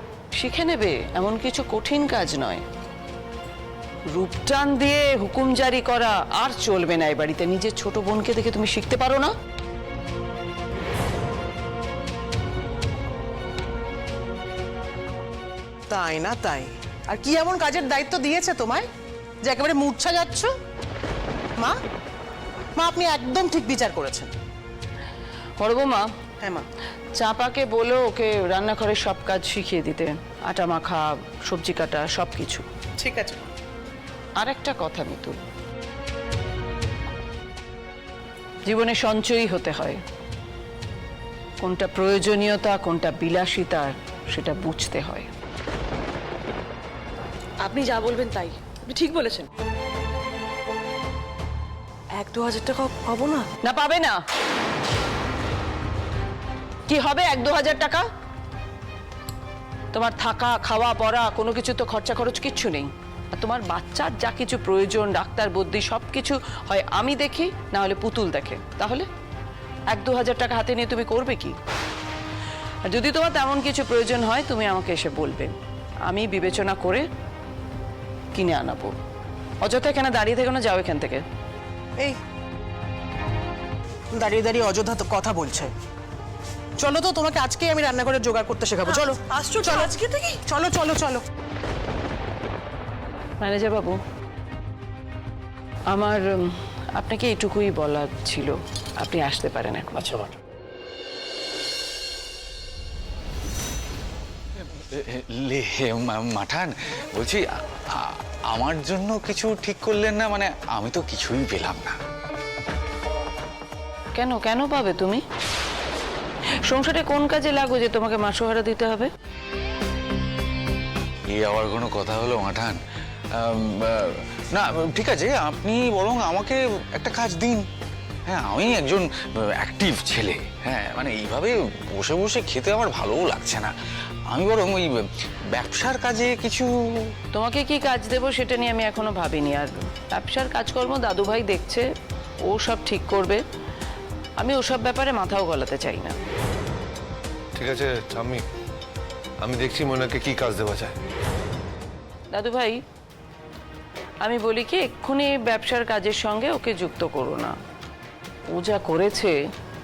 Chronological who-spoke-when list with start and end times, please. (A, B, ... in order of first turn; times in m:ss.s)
0:00.4-0:02.6 A
0:04.1-0:09.3 A
0:15.9-0:18.9 B
0:19.4-0:20.5 B
0:22.8-0:24.3 B
0:25.6-0:26.1 A
0:27.2-0:32.7 A
0:33.0-0:33.5 B
0:34.4-0:35.4 A
0:38.7-0:40.0 A
0:41.6-0:45.3 A
0:47.6-0:49.5 C
0:52.2-0:53.4 C
0:53.6-0:54.2 A
0:56.9-0:58.0 A
0:59.9-1:09.1 A
1:09.9-1:11.6 A
1:12.9-1:15.5 A
1:16.0-1:17.0 A
1:18.3-1:18.9 A
1:19.6-1:21.2 A
1:24.1-1:25.7 B
1:26.8-1:31.2 B
1:28.9-1:29.9 C
1:33.4-1:34.0 A
1:35.9-1:40.4 A
1:45.0-1:47.4 D
1:48.0-1:52.0 D
1:54.2-1:55.2 A
1:56.6-1:59.1 A
2:01.3-2:02.8 D
2:03.4-2:07.6 D
2:08.3-2:13.7 D
2:14.3-2:14.9 D
2:15.5-2:17.1 D
2:17.3-2:21.9 A
2:22.5-2:23.4 A
2:24.4-2:26.2 A
2:27.5-2:28.4 E
2:29.4-2:30.9 E
2:32.3-2:32.8 A
2:34.2-2:37.5 A
2:38.5-2:39.3 A